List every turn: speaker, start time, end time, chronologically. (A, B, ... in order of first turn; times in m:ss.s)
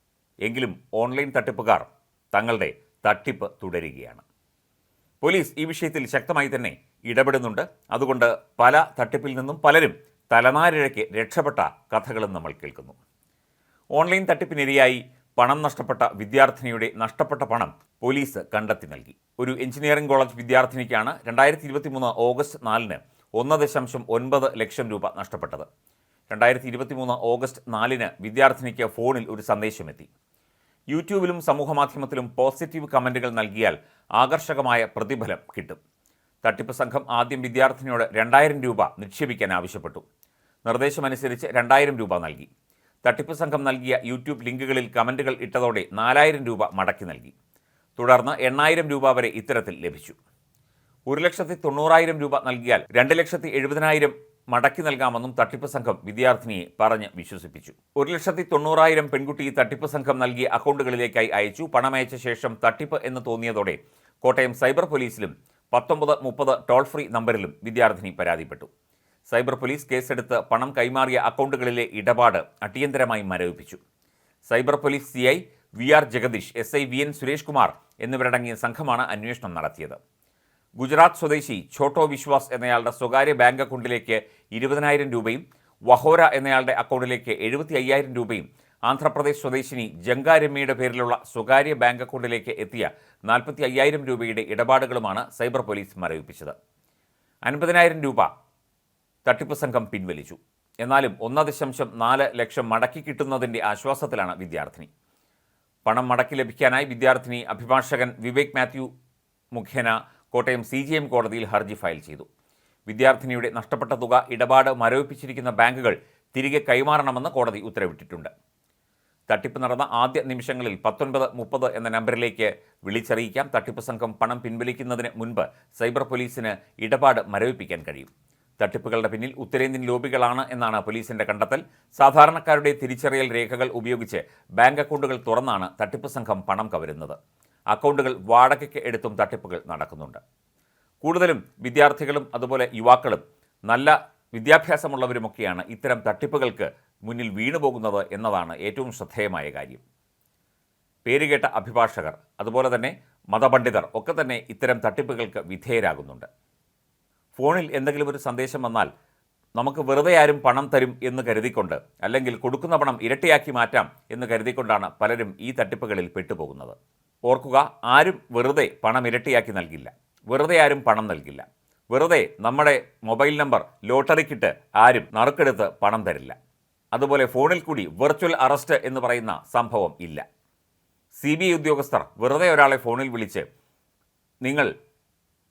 0:00.4-0:04.2 A
0:05.2-0:13.0 A
0:14.0-0:25.7 A
0:26.3-0:30.1 A
0:30.9-0:35.8 A
0:36.4-0:40.0 A
0:40.7-0:42.5 A
0:43.0-0:47.3 A
0:48.0-0:50.2 A
0:51.1-1:08.7 A
1:09.3-1:13.8 A
1:14.5-1:20.0 A
1:20.8-1:36.5 A
1:37.5-1:38.3 A
1:39.2-1:44.9 A
1:45.9-1:48.9 A
1:49.5-1:52.3 A
1:52.9-1:58.3 A
1:59.3-2:17.2 A
2:17.7-2:20.2 A
2:21.0-2:29.8 A
2:31.1-2:36.3 A
2:37.4-2:38.9 A
2:39.6-2:46.8 A
2:47.3-2:56.4 A
2:56.9-3:00.2 A
3:01.2-3:03.5 A
3:04.4-3:04.7 A